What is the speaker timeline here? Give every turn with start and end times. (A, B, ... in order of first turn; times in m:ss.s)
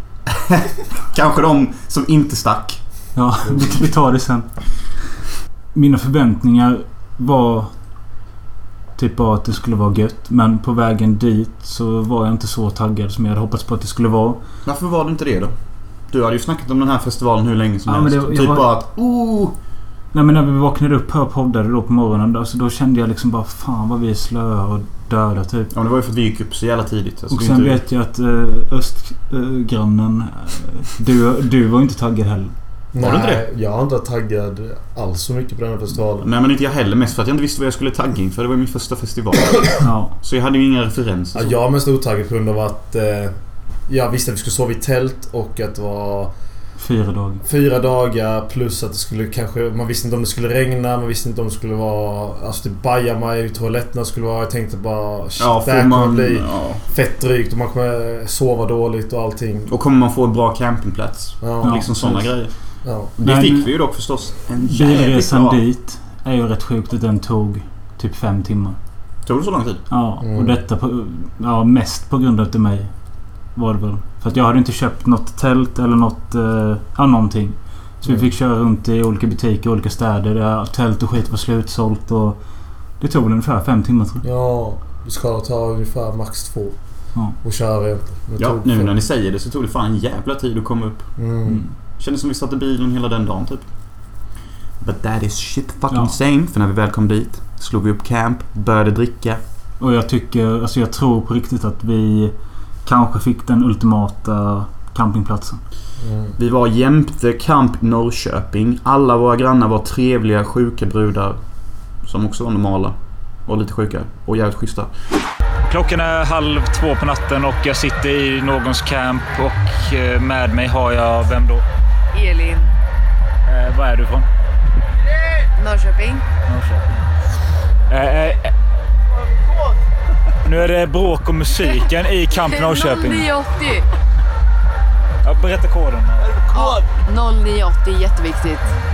0:00.3-0:03.7 A
0:03.1-0:04.9 B
0:05.7-0:07.8 B
0:09.0-0:14.4 B
0:14.6-0:15.6 A
0:16.1-0:19.6 A
0:17.9-0:18.7 B
0:20.1-0:25.7 B
0:25.7-0:27.8 A
0:27.3-0:32.5 B
0:32.9-0:36.3 C
0:33.0-0:33.4 A
0:36.2-0:41.6 A
0:39.8-0:40.1 B
0:41.3-0:46.3 C
0:46.8-0:47.4 B
0:47.4-0:59.7 C
0:55.4-0:56.8 A
0:59.7-1:05.6 A
1:01.4-1:03.1 C
1:01.6-1:01.9 B
1:03.2-1:04.0 B
1:04.6-1:08.8 B
1:09.2-1:09.9 A
1:09.9-1:12.9 B
1:10.2-1:10.6 C
1:13.5-1:22.4 B
1:23.0-1:24.2 B
1:24.2-1:28.9 C
1:28.4-1:31.1 A
1:31.2-1:31.6 C
1:31.5-1:31.7 B
1:32.0-1:33.7 A
1:34.8-1:39.4 A
1:39.8-1:45.6 B
1:46.0-1:46.4 C
1:46.4-1:51.4 A
1:52.0-1:54.9 A
1:55.7-2:01.6 D
2:02.1-2:02.7 E
2:03.5-2:04.3 D
2:05.6-2:06.2 E
2:06.5-2:06.9 D
2:07.9-2:08.5 D
2:10.5-2:13.2 D
2:12.3-2:13.8 E
2:15.2-2:16.4 D
2:16.5-2:18.6 E